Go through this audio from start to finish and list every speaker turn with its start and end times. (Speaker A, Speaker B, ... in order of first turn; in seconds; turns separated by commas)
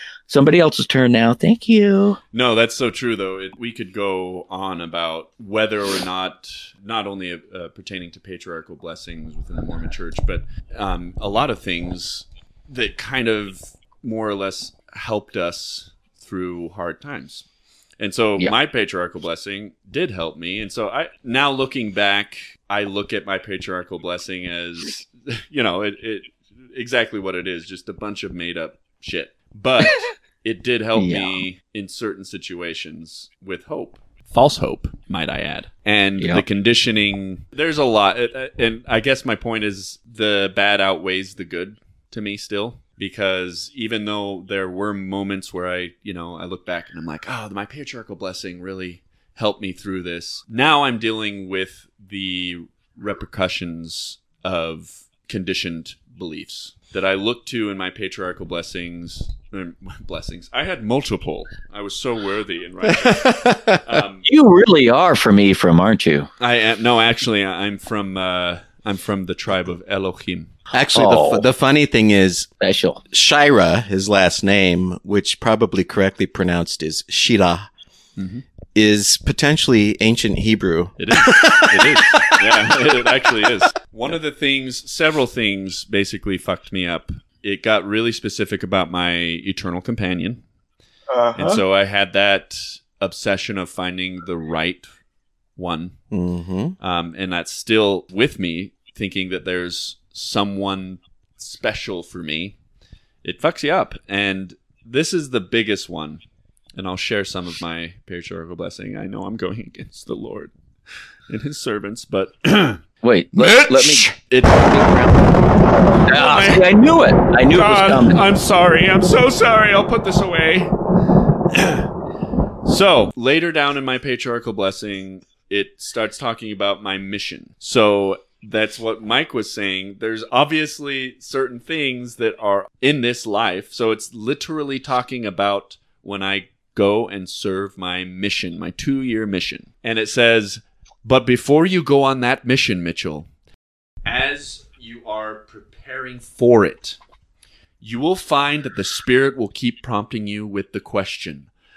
Speaker A: 0.3-2.2, Speaker B: 2.3-17.4, Speaker B: 18.0-64.2, Speaker A: 30.9-31.4, Speaker A: 36.2-36.4, Speaker C: 62.9-64.0, Speaker A: 64.2-66.3, Speaker B: 66.4-70.5, Speaker C: 70.7-72.5, Speaker A: 70.9-71.5, Speaker A: 72.6-73.0, Speaker C: 73.1-77.7, Speaker B: 78.2-78.4, Speaker C: 78.7-82.8, Speaker B: 81.0-90.4, Speaker C: 91.1-91.6, Speaker B: 91.3-94.9, Speaker B: 95.6-96.0, Speaker C: 96.1-96.8, Speaker B: 96.8-102.6, Speaker B: 103.2-106.2, Speaker B: 106.7-110.5, Speaker B: 111.3-112.8, Speaker A: 113.0-114.1, Speaker B: 113.4-115.3, Speaker A: 114.7-115.0, Speaker B: 116.0-116.8, Speaker A: 116.1-118.2, Speaker B: 117.3-120.7, Speaker B: 121.5-121.9, Speaker B: 122.6-143.3, Speaker B: 144.0-147.0, Speaker B: 147.8-151.5